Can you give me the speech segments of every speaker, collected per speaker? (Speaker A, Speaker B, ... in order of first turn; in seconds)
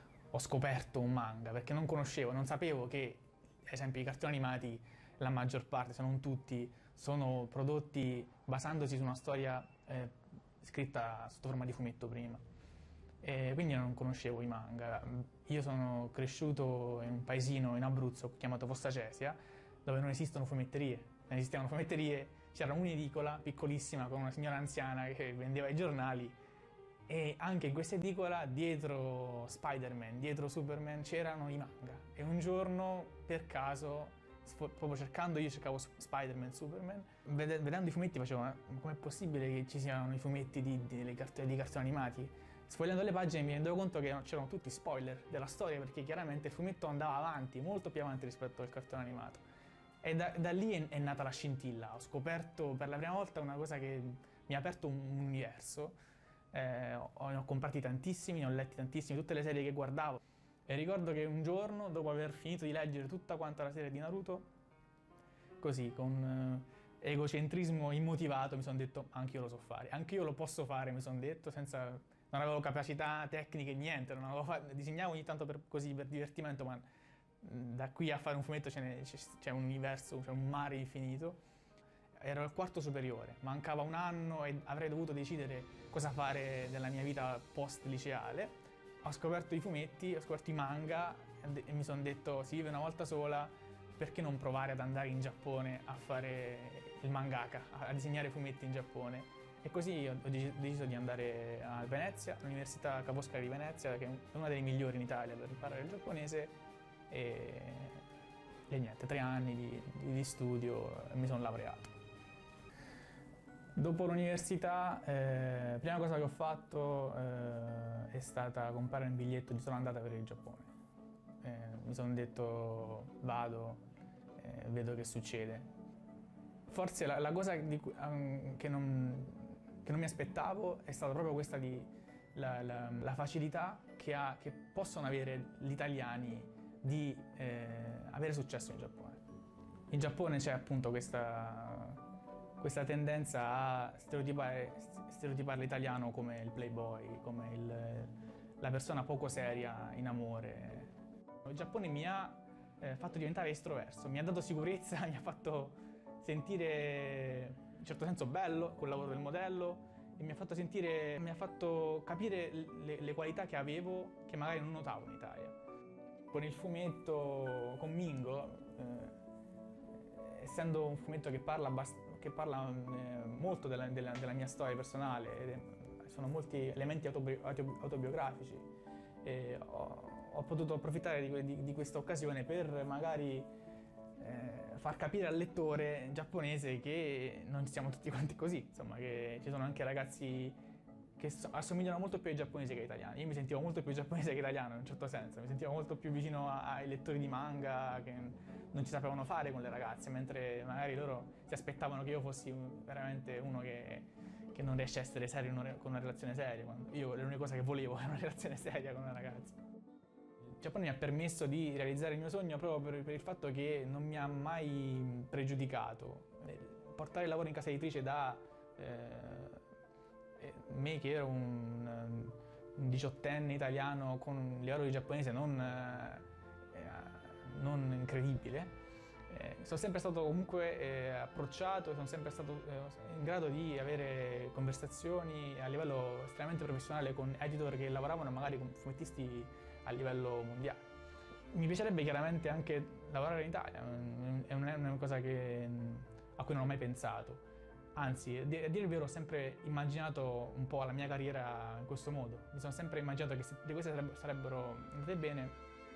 Speaker A: 0.3-12.4, 13.2-26.4, 27.1-49.4, 50.0-56.0, 56.5-64.5, 65.6-76.9, 77.4-81.4, 82.2-106.6, 107.1-108.0, 108.7-111.9, 113.8-120.7, 121.4-123.8, 124.4-125.7, 126.7-139.2, 139.9-142.0, 142.6-150.9, 151.4-165.6, 166.3-169.2, 170.1-178.7, 179.2-183.5, 184.2-190.6, 191.2-209.6, 210.5-219.6, 220.4-228.7, 229.3-240.8, 241.5-247.4, 247.9-255.6